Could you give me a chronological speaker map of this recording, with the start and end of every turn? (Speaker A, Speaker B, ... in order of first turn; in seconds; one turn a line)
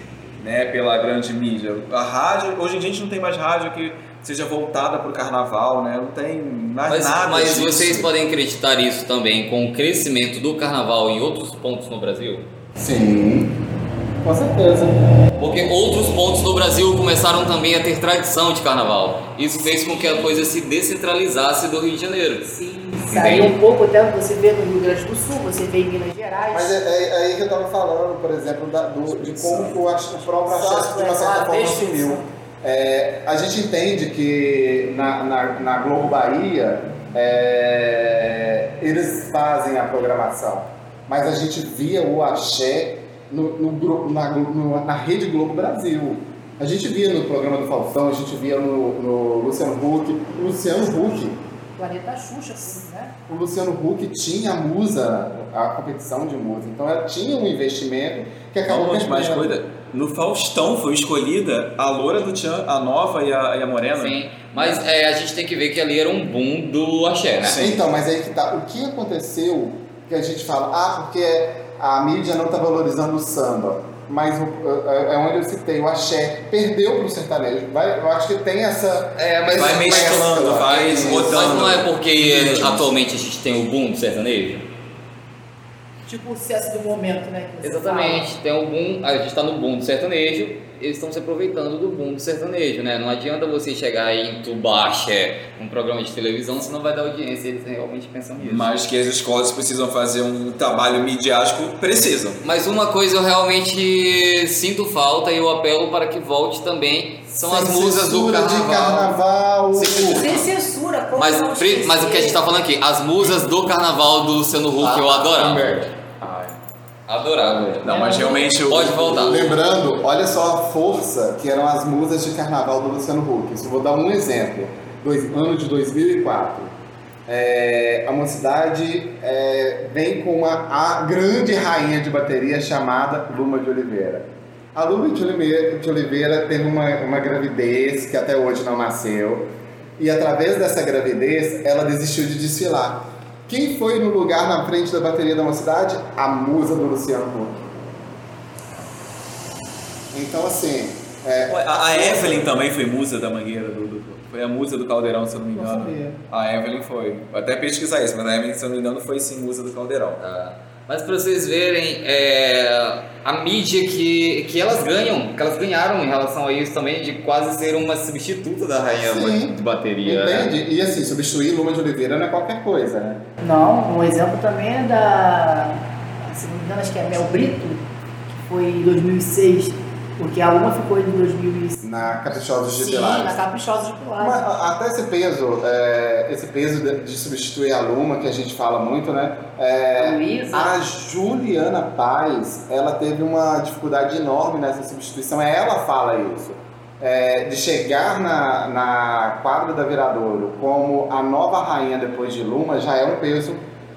Speaker A: 0.4-8.1
Speaker B: 6.9-12.5
Speaker C: 12.8-13.6
Speaker C: 14.2-15.0
Speaker B: 15.4-23.6
Speaker D: 22.5-26.7
Speaker C: 26.5-51.4
Speaker A: 29.1-29.8
Speaker D: 30.5-32.3
Speaker D: 51.8-53.1
Speaker C: 53.3-59.5
Speaker A: 58.7-64.8
Speaker B: 63.9-67.6
Speaker A: 67.4-67.8
Speaker C: 67.5-81.4
Speaker B: 79.2-84.7
Speaker A: 79.5-82.9
Speaker D: 86.1-88.3
Speaker B: 87.6-98.7
Speaker A: 98.4-102.4
Speaker B: 102.4-109.2
Speaker C: 107.5-110.4
Speaker B: 109.8-110.5
Speaker D: 109.8-112.5
Speaker B: 111.2-115.9
Speaker C: 114.8-115.9
Speaker A: 116.2-116.6
Speaker B: 117.1-119.5
Speaker C: 117.4-117.8
Speaker A: 117.8-119.6
Speaker D: 117.8-118.6
Speaker C: 119.2-126.8
Speaker C: 127.3-147.7
Speaker C: 150.1-152.5
Speaker A: 151.5-160.2
Speaker C: 155.5-156.2
Speaker B: 160.2-170.5
Speaker C: 169.1-173.2
Speaker D: 173.4-177.8
Speaker D: 178.4-181.8
Speaker C: 181.8-183.4
Speaker D: 182.8-184.4
Speaker C: 184.2-203.6
Speaker D: 190.0-190.7